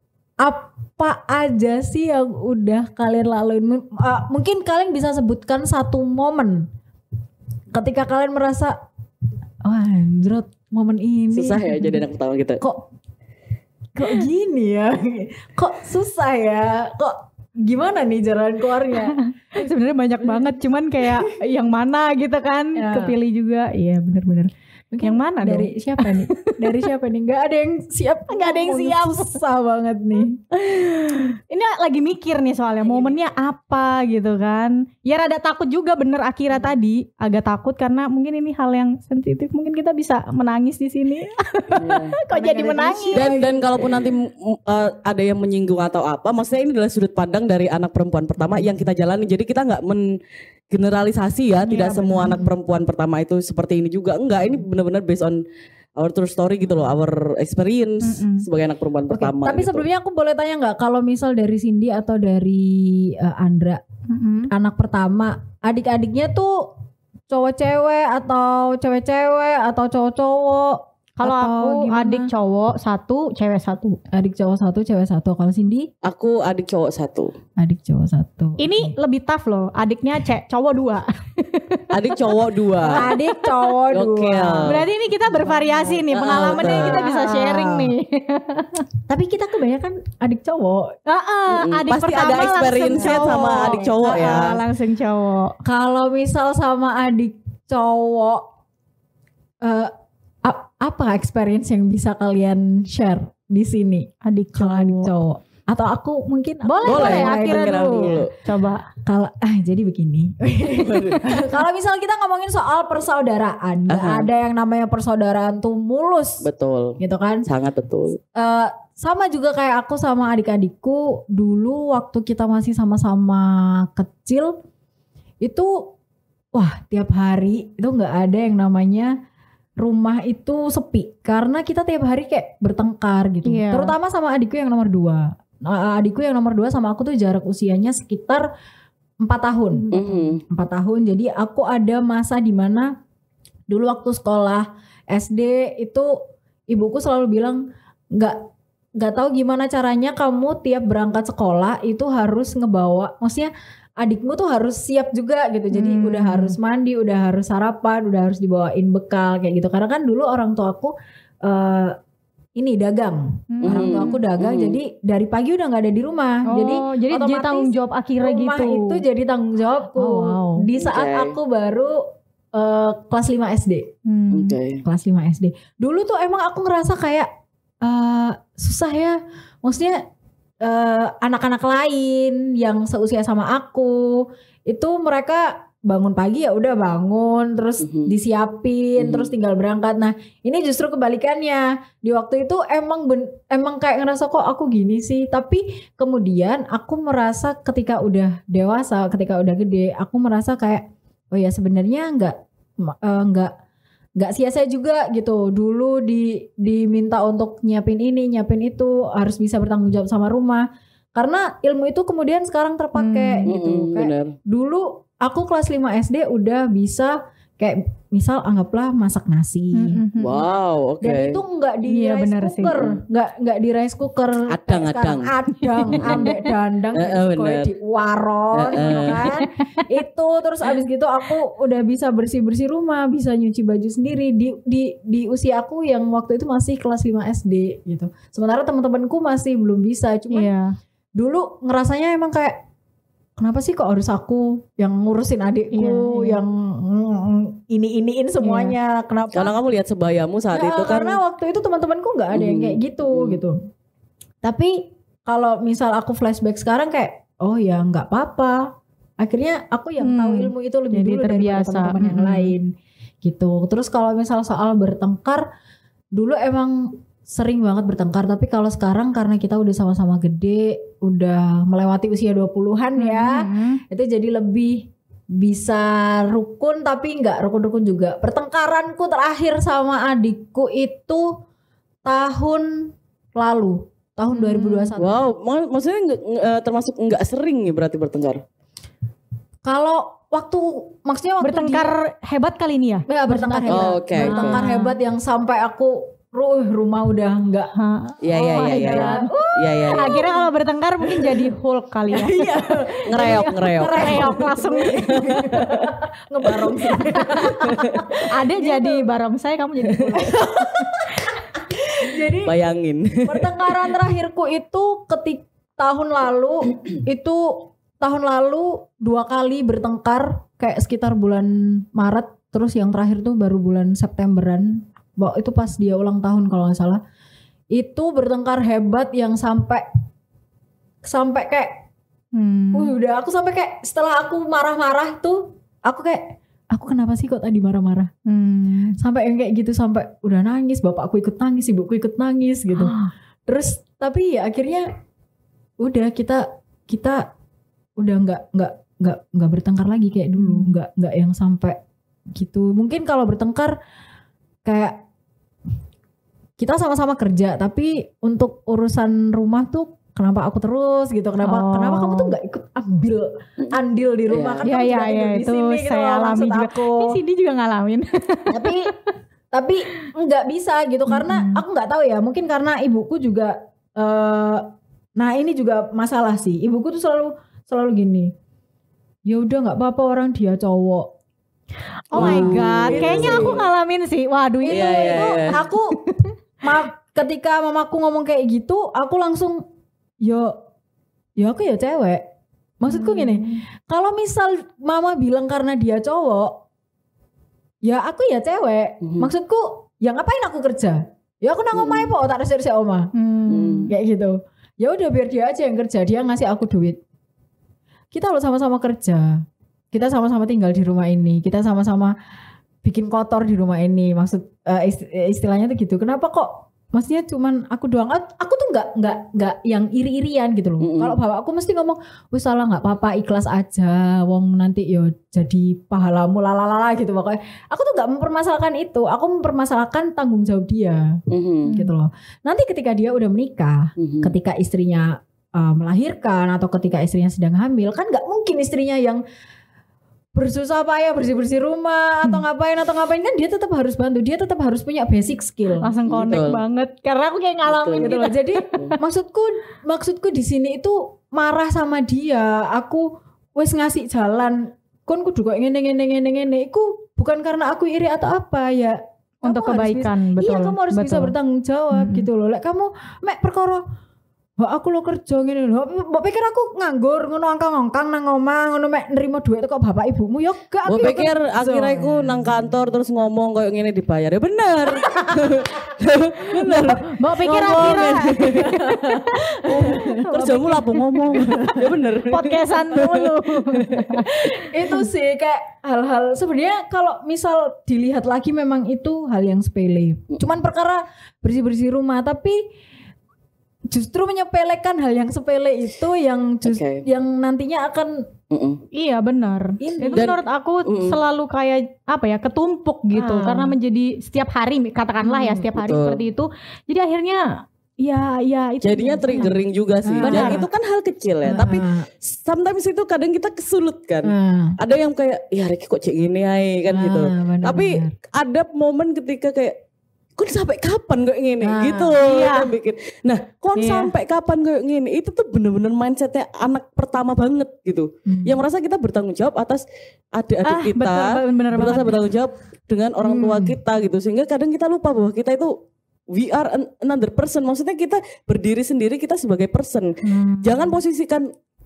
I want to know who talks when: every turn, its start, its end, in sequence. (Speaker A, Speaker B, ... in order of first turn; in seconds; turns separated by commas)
Speaker A: 0.4-6.7, Speaker A: 7.7-8.8, Speaker A: 9.6-12.0, Speaker B: 11.3-12.6, Speaker A: 12.6-12.8, Speaker A: 13.9-19.2, Speaker C: 19.0-24.5, Speaker A: 20.2-21.3, Speaker A: 22.8-23.1, Speaker A: 24.9-30.5, Speaker C: 25.0-26.6, Speaker C: 28.3-29.4, Speaker C: 30.7-43.3, Speaker A: 32.8-33.1, Speaker B: 41.8-42.1, Speaker A: 42.3-44.1, Speaker B: 43.1-50.1, Speaker B: 50.7-55.4, Speaker C: 51.6-52.5, Speaker A: 52.2-52.5, Speaker B: 56.0-59.8, Speaker C: 58.0-58.5, Speaker A: 59.1-63.8, Speaker C: 64.1-64.5, Speaker A: 64.5-66.7, Speaker A: 67.3-72.3, Speaker C: 71.2-74.0, Speaker A: 74.1-75.9, Speaker B: 76.0-77.3, Speaker A: 77.6-79.0, Speaker C: 78.6-81.9, Speaker B: 81.9-83.1, Speaker A: 82.8-87.9, Speaker C: 82.9-83.6, Speaker B: 83.9-84.8, Speaker C: 84.6-88.8, Speaker B: 86.1-87.0, Speaker A: 89.1-91.0, Speaker C: 91.1-95.5, Speaker B: 91.5-94.6, Speaker A: 92.9-94.5, Speaker A: 95.6-98.5, Speaker A: 99.6-99.9, Speaker A: 100.4-108.3, Speaker C: 104.2-105.1, Speaker C: 106.6-108.8, Speaker B: 106.8-108.3, Speaker A: 109.0-116.5, Speaker B: 110.7-111.5, Speaker B: 113.9-114.3, Speaker B: 116.4-118.2, Speaker A: 117.0-117.5, Speaker A: 118.3-124.5, Speaker A: 125.4-125.9, Speaker A: 126.5-129.1, Speaker A: 129.8-138.5, Speaker C: 133.4-133.9, Speaker A: 139.2-142.9, Speaker C: 139.8-140.0, Speaker B: 139.9-140.4, Speaker A: 143.7-146.2, Speaker A: 146.7-148.4, Speaker A: 149.0-160.9, Speaker C: 155.7-156.6, Speaker A: 161.4-162.0, Speaker A: 162.6-173.9, Speaker C: 163.5-164.2, Speaker B: 163.6-164.8, Speaker C: 166.5-169.0, Speaker C: 169.9-170.7, Speaker B: 170.8-171.4, Speaker C: 174.1-174.6, Speaker B: 174.3-174.8, Speaker A: 174.8-177.3, Speaker A: 177.8-180.0, Speaker A: 180.6-203.5, Speaker B: 187.8-188.1, Speaker B: 189.0-189.3, Speaker A: 204.2-220.0, Speaker C: 212.9-213.5, Speaker B: 213.5-214.3, Speaker C: 219.7-220.4, Speaker B: 220.2-221.4, Speaker A: 221.0-240.5, Speaker C: 221.9-222.8, Speaker B: 222.7-223.0, Speaker B: 224.5-225.3, Speaker C: 225.6-226.5, Speaker B: 225.9-226.3, Speaker B: 226.9-227.7, Speaker B: 228.5-229.2, Speaker C: 228.8-229.6, Speaker C: 240.3-240.7, Speaker A: 241.2-242.6, Speaker A: 243.4-249.6, Speaker C: 245.7-246.4, Speaker C: 248.4-248.8, Speaker B: 249.3-251.2, Speaker A: 250.5-253.6, Speaker B: 252.3-253.4, Speaker A: 254.4-258.6, Speaker A: 259.2-265.5, Speaker C: 260.0-262.5, Speaker A: 266.1-281.4, Speaker C: 273.0-273.8, Speaker A: 282.1-285.2, Speaker C: 284.3-284.9, Speaker B: 285.0-288.4, Speaker A: 289.6-291.9, Speaker C: 291.4-295.0, Speaker A: 293.1-297.7, Speaker B: 293.7-294.6, Speaker C: 297.8-302.4, Speaker B: 298.2-300.2, Speaker A: 298.3-300.5, Speaker A: 301.0-301.5, Speaker A: 302.1-309.1, Speaker B: 303.1-304.4, Speaker C: 303.8-305.4, Speaker B: 305.1-305.9, Speaker B: 306.5-308.2, Speaker C: 308.3-310.4, Speaker A: 310.2-311.2, Speaker A: 312.0-312.6, Speaker B: 312.0-313.8, Speaker A: 313.2-327.0, Speaker A: 327.7-329.9, Speaker A: 331.0-331.8, Speaker C: 332.4-332.9, Speaker A: 332.7-338.1, Speaker C: 338.2-339.0, Speaker A: 339.0-342.9, Speaker C: 342.8-343.1, Speaker A: 343.5-344.9, Speaker A: 345.8-347.3, Speaker A: 348.0-351.8, Speaker C: 350.4-350.7, Speaker A: 352.3-353.7, Speaker A: 354.6-355.0, Speaker A: 356.6-367.2, Speaker C: 361.4-362.3, Speaker B: 364.3-364.6, Speaker C: 364.6-368.9, Speaker A: 368.5-368.9, Speaker A: 369.5-374.6, Speaker C: 371.1-371.6, Speaker A: 375.2-378.3, Speaker A: 379.2-381.1, Speaker C: 382.1-386.2, Speaker A: 382.1-383.6, Speaker B: 382.1-383.6, Speaker A: 384.7-386.0, Speaker B: 384.7-385.6, Speaker A: 386.6-389.6, Speaker A: 390.2-390.6, Speaker A: 391.4-392.3, Speaker A: 392.8-396.6, Speaker C: 392.9-393.6, Speaker A: 397.8-403.1, Speaker B: 399.0-399.3, Speaker B: 401.7-402.1, Speaker C: 403.1-403.9, Speaker B: 403.5-403.9, Speaker A: 403.9-407.0, Speaker A: 408.1-412.1, Speaker A: 412.8-439.2, Speaker B: 420.8-421.2, Speaker B: 431.3-431.7, Speaker C: 431.6-431.9, Speaker B: 434.0-434.3, Speaker A: 440.4-446.4, Speaker C: 445.8-448.9, Speaker B: 446.1-446.6, Speaker B: 447.7-448.1, Speaker A: 448.0-463.8, Speaker C: 459.4-461.3, Speaker C: 461.9-462.3, Speaker A: 464.6-472.3, Speaker B: 470.9-484.4, Speaker A: 475.1-475.4, Speaker C: 476.5-484.6, Speaker A: 478.5-480.1, Speaker A: 481.4-481.7, Speaker A: 484.3-492.6, Speaker A: 493.9-498.3, Speaker B: 496.6-497.1, Speaker B: 498.5-498.8, Speaker C: 498.9-507.4, Speaker A: 499.8-500.3, Speaker B: 500.1-501.2, Speaker A: 503.1-503.8, Speaker A: 505.2-505.7, Speaker B: 505.8-506.2, Speaker C: 508.0-509.6, Speaker B: 508.8-519.8, Speaker A: 510.0-510.7, Speaker C: 510.2-510.6, Speaker A: 511.4-512.1, Speaker A: 514.2-514.8, Speaker A: 516.9-518.1, Speaker B: 520.4-529.8, Speaker A: 521.6-522.2, Speaker C: 522.2-522.7, Speaker C: 523.8-524.1, Speaker A: 528.3-528.6, Speaker B: 530.4-535.8, Speaker C: 530.6-532.2, Speaker A: 533.2-533.8, Speaker B: 536.3-541.5, Speaker C: 540.2-541.0